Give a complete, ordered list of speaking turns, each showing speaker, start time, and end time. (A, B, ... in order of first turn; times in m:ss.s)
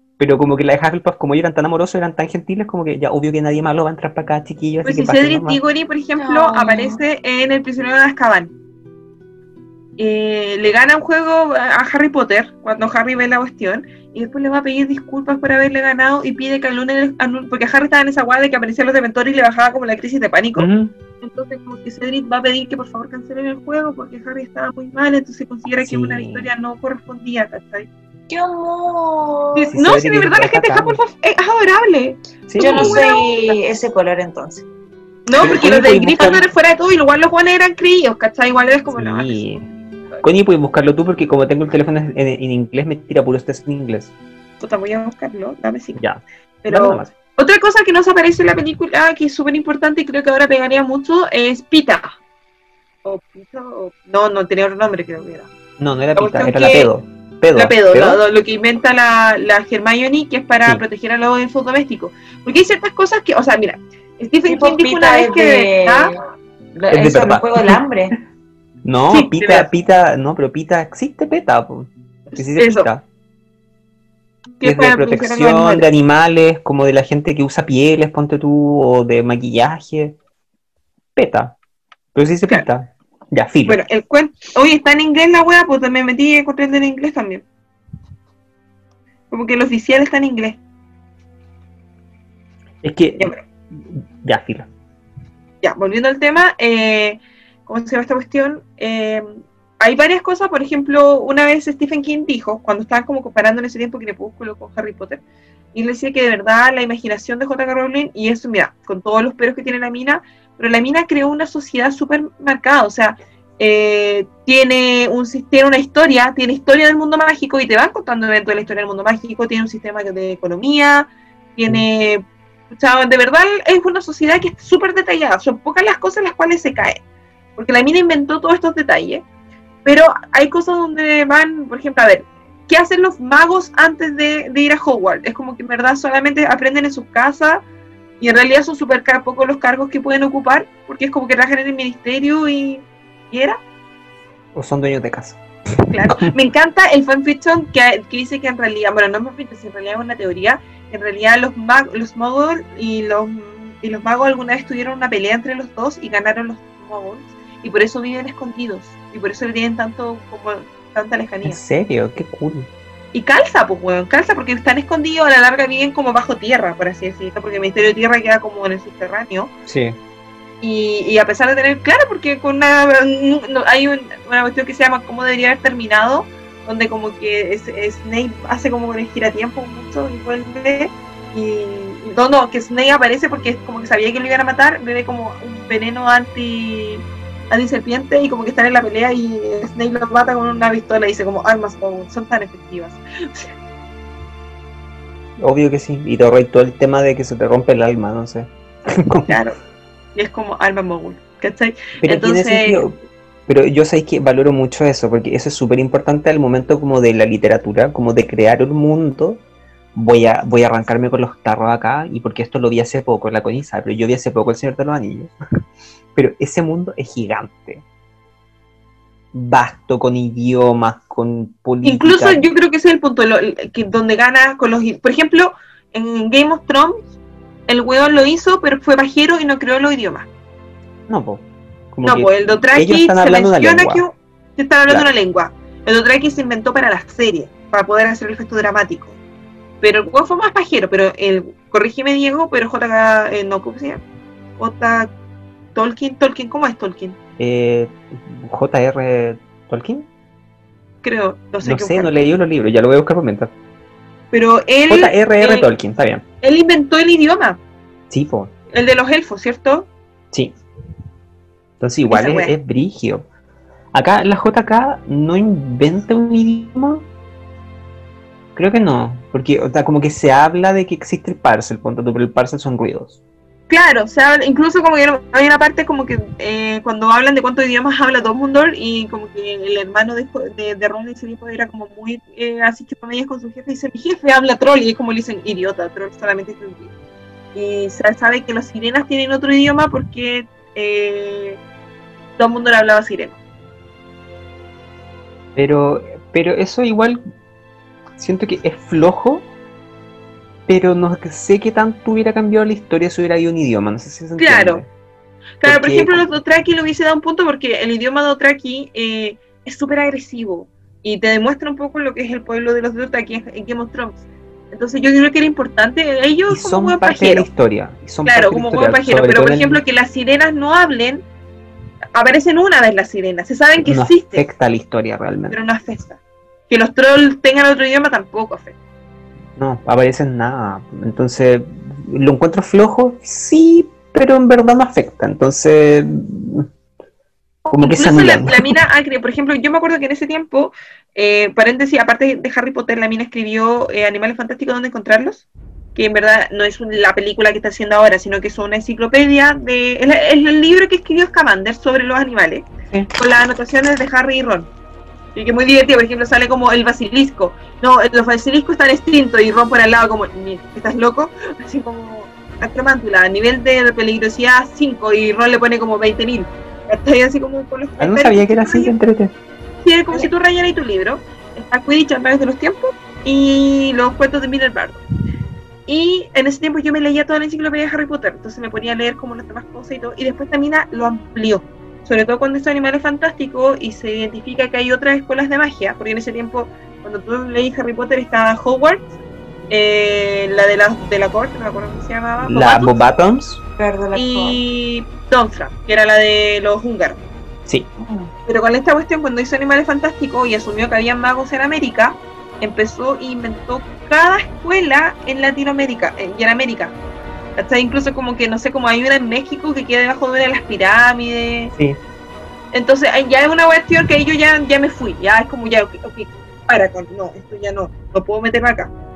0:00.2-0:05.6 A
0:04.8-0:08.5 B
0:06.2-0:07.0 C
0:10.0-0:20.7 B
0:20.6-0:20.9 A
0:21.2-0:27.9 B
0:25.8-0:26.5 A
0:28.3-0:29.7 C
0:29.5-0:33.5 B
0:29.6-0:31.0 A
0:32.5-0:33.0 A
0:32.6-0:34.6 C
0:35.2-0:39.4 B
0:35.4-0:36.4 A
0:38.9-0:39.7 A
0:40.2-0:44.1 A
0:44.6-0:46.0 B
0:46.0-0:47.1 A
0:46.6-0:52.1 B
0:53.0-0:55.5 B
0:55.8-0:58.2 A
0:56.2-0:56.9 B
0:57.5-1:06.1 B
1:04.4-1:06.2 C
1:06.8-1:08.1 C
1:06.9-1:07.8 A
1:08.8-1:13.0 A
1:09.1-1:09.7 B
1:12.3-1:12.9 B
1:14.6-1:15.9 B
1:14.6-1:20.2 A
1:21.2-1:21.5 A
1:22.1-1:23.8 A
1:23.6-1:27.4 B
1:29.3-1:30.6 B
1:32.8-1:34.7 A
1:35.6-1:45.2 B
1:45.7-2:07.0 B
2:07.6-2:09.2 B
2:09.8-2:17.6 B
2:18.2-2:23.6 B
2:24.5-2:26.3 A
2:25.9-2:41.6 B
2:41.4-2:42.7 A
2:43.1-2:49.5 B
2:49.7-2:50.0 A
2:50.6-3:13.5 B
3:15.4-3:19.4 A
3:19.3-3:19.6 B
3:20.1-3:22.8 B
3:22.0-3:22.9 A
3:23.5-3:29.4 A
3:29.9-3:35.3 A
3:36.1-3:37.8 A
3:39.3-3:42.5 A
3:41.8-3:47.0 B
3:47.7-3:50.3 B
3:51.1-3:54.0 A
3:52.0-3:59.2 B
3:59.8-4:04.0 B
4:04.6-4:05.1 B
4:05.7-4:07.2 B
4:07.4-4:10.1 A
4:11.0-4:12.1 B
4:11.6-4:13.5 A
4:14.3-4:15.7 B
4:14.9-4:16.2 A
4:16.4-4:17.6 B
4:18.1-4:18.5 A
4:18.7-4:19.9 B
4:21.8-4:23.2 A
4:22.1-4:22.5 B
4:23.9-4:27.0 A
4:28.6-4:33.2 A
4:33.7-4:46.9 B
4:47.5-4:51.6 B
4:52.4-4:53.4 B
4:55.6-4:57.2 A
4:58.2-4:59.5 A
5:00.7-5:04.9 A
5:04.4-5:04.8 B
5:05.6-5:17.5 B
5:05.6-5:06.3 A
5:16.5-5:19.8 A
5:18.2-5:21.2 B
5:22.1-5:24.4 B
5:23.8-5:25.6 A
5:25.5-5:28.7 B
5:29.6-5:36.7 A
5:37.7-5:38.7 A
5:37.8-5:45.4 B
5:45.9-5:54.7 B
5:55.3-6:08.9 B
6:08.0-6:09.3 A
6:09.8-6:15.0 B
6:15.9-6:29.0 B
6:29.7-6:32.9 B
6:32.4-6:33.6 A
6:33.8-6:34.6 C
6:34.1-6:37.2 B
6:38.0-6:38.3 C
6:38.5-6:46.9 B
6:47.6-6:51.7 B
6:52.7-6:58.9 B